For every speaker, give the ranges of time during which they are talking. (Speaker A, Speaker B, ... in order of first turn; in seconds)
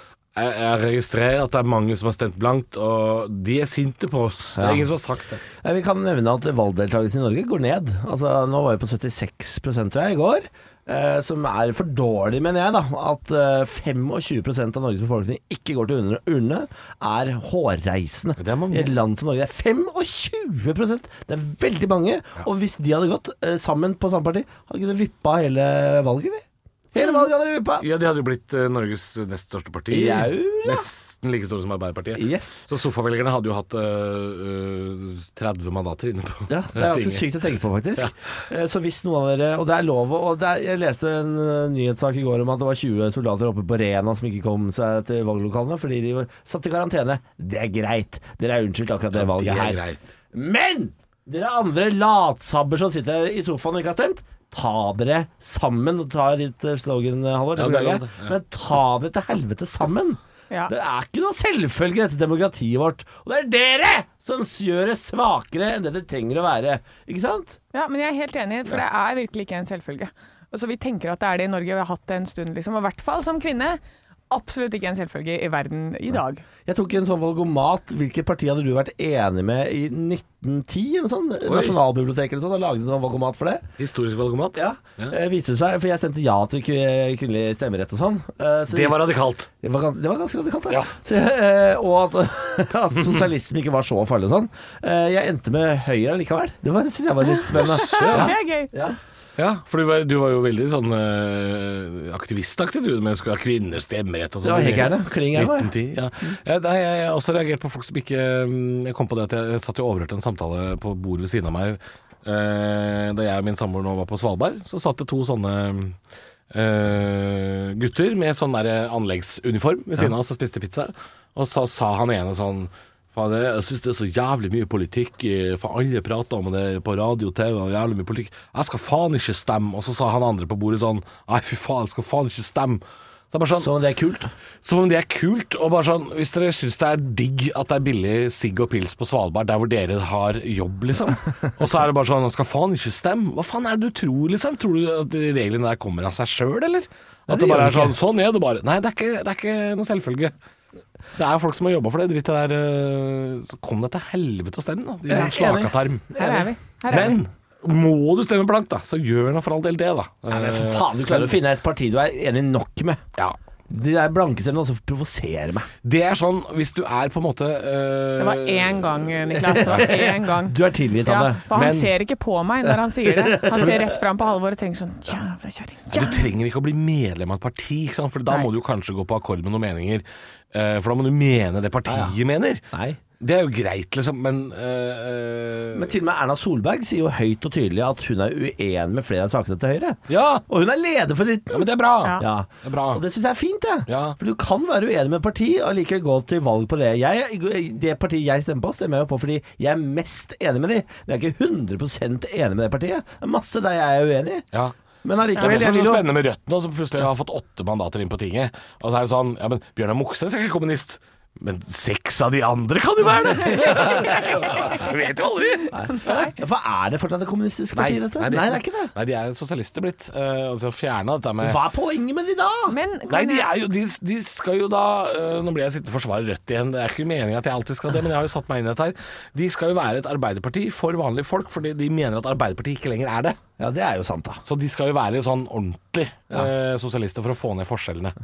Speaker A: 0.3-5.4, 18.4-18.9, 27.8-37.3, 49.1-50.0, 57.5-58.3, 81.5-81.8, 83.8-85.1, 88.7-89.5, 97.6-98.3, 99.4-115.9, 116.5-133.7, 134.6-150.3, 151.2-156.2, 156.9-161.4, 165.8-169.9, 171.5-171.9, 175.9-182.6, 183.2-185.9, 190.1-190.4, 191.5-193.0, 193.9-194.2, 205.3-215.8, 217.7-221.6, 223.1-233.4, 234.4-238.2
Speaker B: 4.5-4.9, 5.5-27.9, 29.9-30.9, 32.1-32.7, 36.5-49.8, 50.3-67.6, 76.7-83.7, 84.5-99.0, 104.4-105.7, 133.6-134.3, 147.3-147.9, 155.1-157.1, 160.3-163.0, 163.7-165.7, 169.3-171.4, 172.8-173.9, 181.8-182.2, 182.7-183.0, 185.7-204.4, 205.0-206.0, 213.7-214.6, 215.8-218.9, 221.4-222.8, 233.6-234.4
Speaker C: 67.7-73.8, 74.3-76.4, 97.3-98.7, 156.2-157.2, 168.2-176.2, 215.8-216.3, 222.7-223.5